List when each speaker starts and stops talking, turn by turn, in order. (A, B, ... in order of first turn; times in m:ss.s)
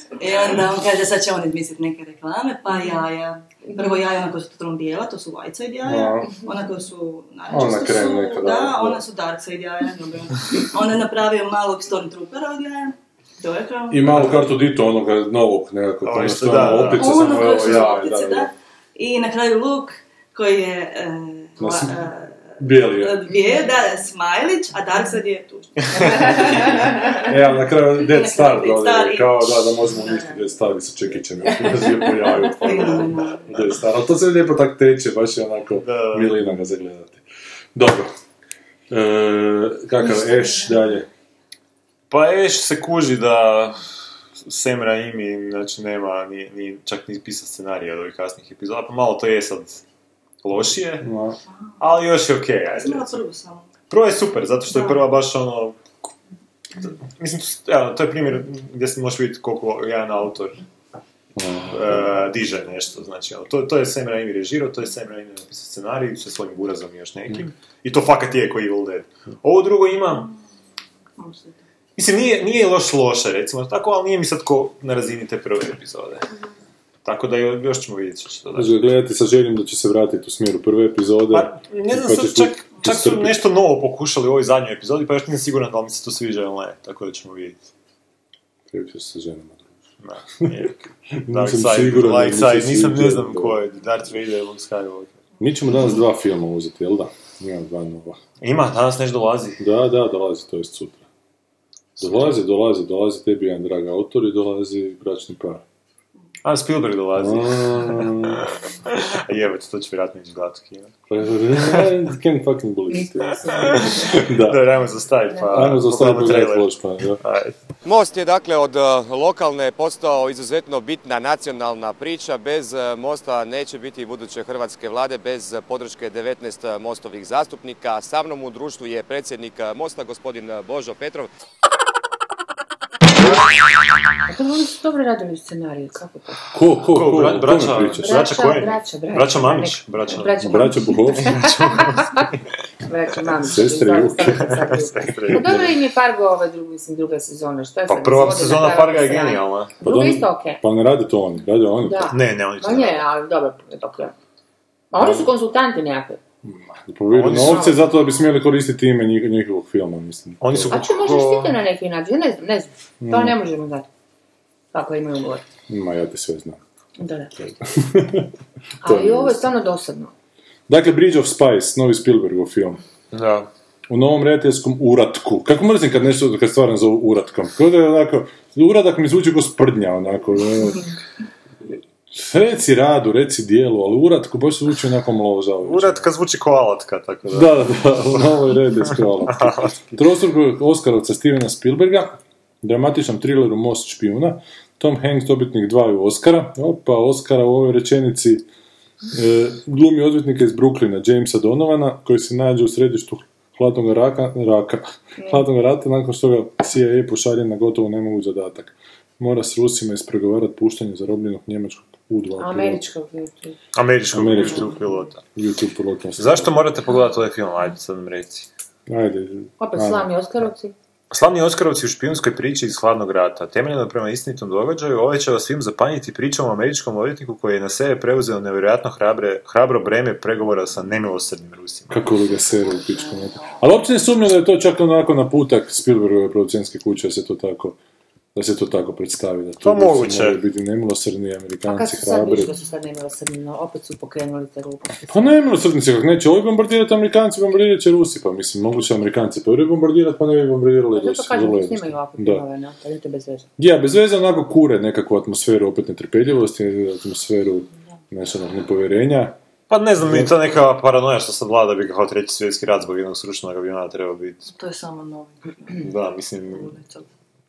0:00.2-0:14.3 A
0:03.7-0:04.0 B
0:05.8-0:06.3 C
0:07.5-0:09.0 C
0:13.9-0:18.5 C
0:14.1-0:14.4 D
0:16.0-0:17.9 D
0:16.6-0:27.3 A
0:21.6-0:22.0 C
0:22.6-0:23.2 C
0:23.3-0:23.7 B
0:26.1-0:37.2 C
0:27.8-0:30.5 A
0:32.3-0:33.6 A
0:35.8-0:36.4 D
0:37.8-0:38.1 C
0:38.9-0:41.1 C
0:42.1-0:43.8 D
0:44.4-0:49.8 D
0:50.4-0:51.1 D
0:51.0-0:51.4 C
0:51.8-0:53.2 D
0:52.8-0:53.7 A
0:53.9-0:55.8 D
0:57.2-1:00.6 D
1:01.4-1:02.2 C
1:01.6-1:10.3 D
1:11.2-1:11.6 A
1:12.0-1:16.3 D
1:17.0-1:18.9 D
1:18.6-1:23.4 C
1:21.3-1:27.6 D
1:28.7-1:29.8 C
1:30.0-1:35.2 D
1:31.2-1:33.6 C
1:35.4-1:38.2 C
1:38.4-1:39.6 D
1:39.6-1:41.0 C
1:42.0-1:45.6 C
1:46.4-1:50.9 D
1:47.2-1:48.4 C
1:51.1-1:54.6 C
1:51.6-1:51.9 D
1:52.9-1:54.1 B
1:53.6-1:56.7 D
1:55.5-1:57.2 C
1:57.2-1:57.6 D
1:57.8-2:11.3 E
2:14.3-2:16.4 B
2:16.5-2:18.2 C
2:16.9-2:20.4 D
2:18.0-2:22.3 B
2:20.4-2:21.5 C
2:21.3-2:22.4 D
2:22.8-2:30.6 B
2:23.4-2:24.7 C
2:24.3-2:25.7 D
2:25.3-2:25.7 C
2:27.9-2:29.8 D
2:29.8-2:32.2 C
2:31.8-2:34.1 B
2:32.1-2:33.0 D
2:34.9-2:36.2 B
2:35.0-2:35.3 C
2:36.4-2:40.8 C
2:37.1-2:37.8 D
2:37.3-2:37.8 B
2:40.4-2:41.6 D
2:40.7-2:43.9 B
2:43.0-2:43.4 C
2:44.7-2:45.4 B
2:45.7-2:46.6 C
2:47.0-2:47.3 B
2:47.4-2:48.3 C
2:48.8-2:50.1 B
2:48.8-2:49.5 C
2:50.7-2:52.8 C
2:53.1-2:53.5 D
2:53.9-3:00.9 C
3:02.1-3:06.1 C
3:05.6-3:08.3 D
3:07.3-3:18.5 C
3:08.9-3:10.0 D
3:19.1-3:32.8 C
3:25.2-3:25.5 B
3:32.4-3:33.6 B
3:33.8-3:35.2 D
3:34.1-3:36.6 C
3:36.2-3:38.5 D
3:38.9-3:40.1 C
3:39.6-3:40.7 B
3:41.1-3:52.0 D
3:51.9-3:57.8 C
3:52.7-3:53.6 B
3:58.4-4:02.5 C
3:59.6-4:00.4 D
4:01.7-4:05.4 B
4:05.1-4:12.4 C
4:10.9-4:13.5 B
4:13.6-4:19.4 C
4:19.7-4:24.5 D
4:20.0-4:20.3 C
4:24.5-4:25.9 A
4:25.8-4:26.7 D
4:26.5-4:27.1 A